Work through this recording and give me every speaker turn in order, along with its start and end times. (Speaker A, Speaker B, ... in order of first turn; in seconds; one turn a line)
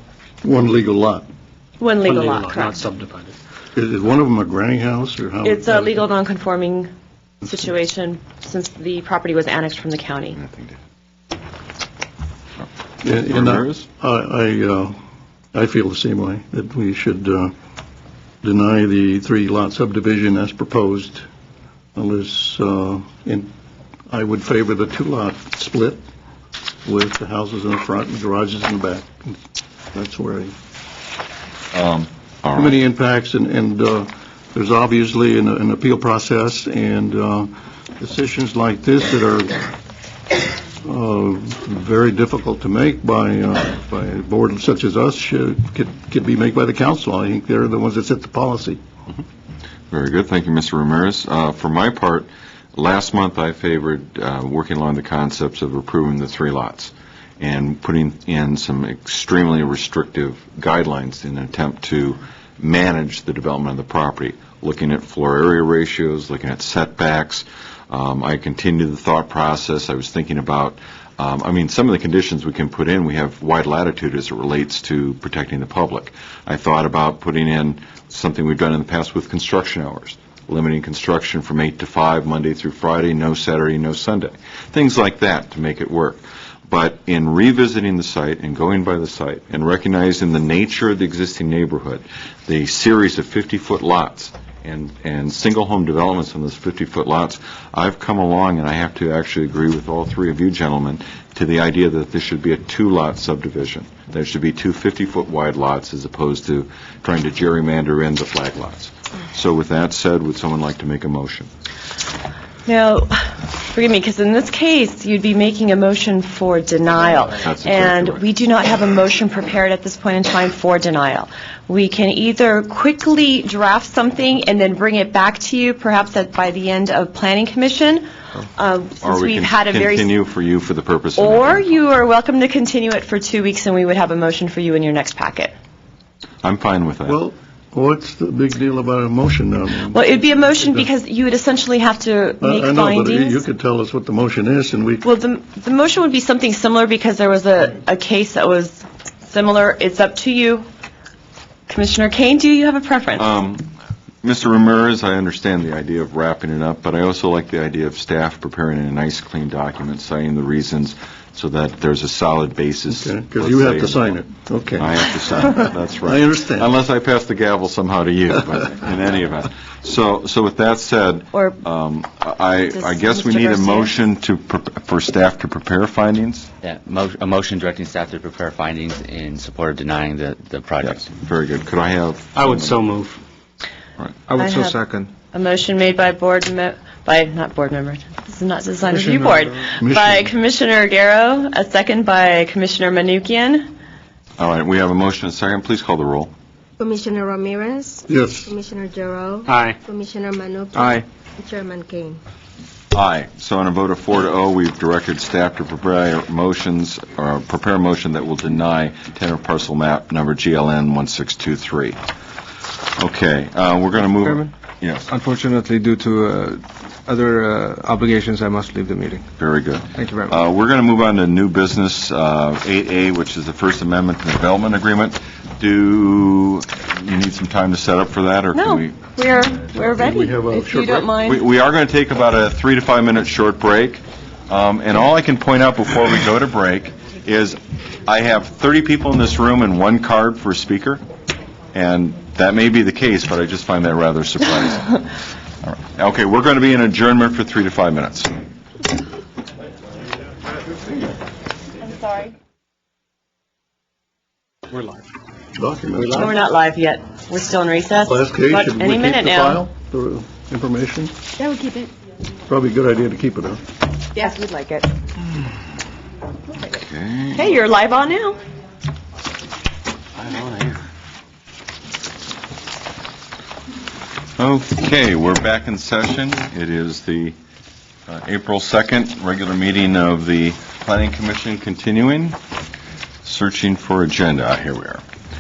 Speaker A: 0.4-1.2
Speaker B: 1.8-2.8
Speaker C: 2.0-3.4
Speaker A: 3.8-6.0
Speaker B: 5.4-6.9
Speaker B: 7.4-10.4
Speaker D: 10.4-10.8
Speaker A: 13.0-15.0
Speaker D: 13.3-13.8
Speaker A: 15.5-17.5
Speaker A: 18.4-21.2
Speaker A: 21.9-23.5
Speaker A: 24.1-26.0
Speaker A: 26.9-29.4
Speaker A: 29.9-30.5
Speaker D: 31.7-32.8
Speaker A: 32.5-39.6
Speaker A: 40.8-48.8
Speaker D: 49.9-111.5
Speaker B: 112.7-128.0
Speaker D: 117.4-118.2
Speaker B: 128.6-130.1
Speaker D: 129.0-131.7
Speaker B: 131.2-135.5
Speaker D: 136.4-137.2
Speaker A: 137.1-140.9
Speaker B: 139.9-143.4
Speaker A: 142.4-145.0
Speaker B: 145.0-150.7
Speaker B: 151.7-153.3
Speaker D: 153.2-153.7
Speaker D: 154.2-164.2
Speaker A: 162.9-166.7
Speaker D: 164.8-176.5
Speaker B: 171.3-171.6
Speaker B: 172.7-173.9
Speaker E: 176.6-181.1
Speaker D: 180.8-182.9
Speaker C: 182.3-183.2
Speaker F: 184.3-185.1
Speaker B: 184.4-184.8
Speaker B: 185.3-193.7
Speaker F: 188.9-189.4
Speaker A: 189.8-190.3
Speaker D: 194.4-196.3
Speaker G: 196.8-202.2
Speaker A: 198.1-198.5
Speaker C: 199.5-199.8
Speaker F: 200.8-201.0
Speaker D: 202.9-212.0
Speaker D: 213.0-215.1
Speaker F: 214.2-214.5
Speaker F: 215.1-219.3
Speaker D: 219.4-229.0
Speaker F: 219.9-220.4
Speaker B: 228.5-231.4
Speaker A: 229.8-231.1
Speaker D: 231.2-241.0
Speaker D: 241.7-245.0
Speaker D: 245.6-248.3
Speaker B: 251.9-252.3
Speaker A: 255.6-256.4
Speaker B: 256.1-259.6
Speaker A: 258.1-261.1
Speaker G: 261.4-261.9
Speaker A: 262.5-263.6
Speaker B: 264.2-264.9
Speaker D: 266.6-267.5
Speaker B: 267.3-268.4
Speaker D: 270.4-270.7
Speaker D: 274.4-277.4
Speaker D: 278.1-282.4
Speaker D: 283.2-285.0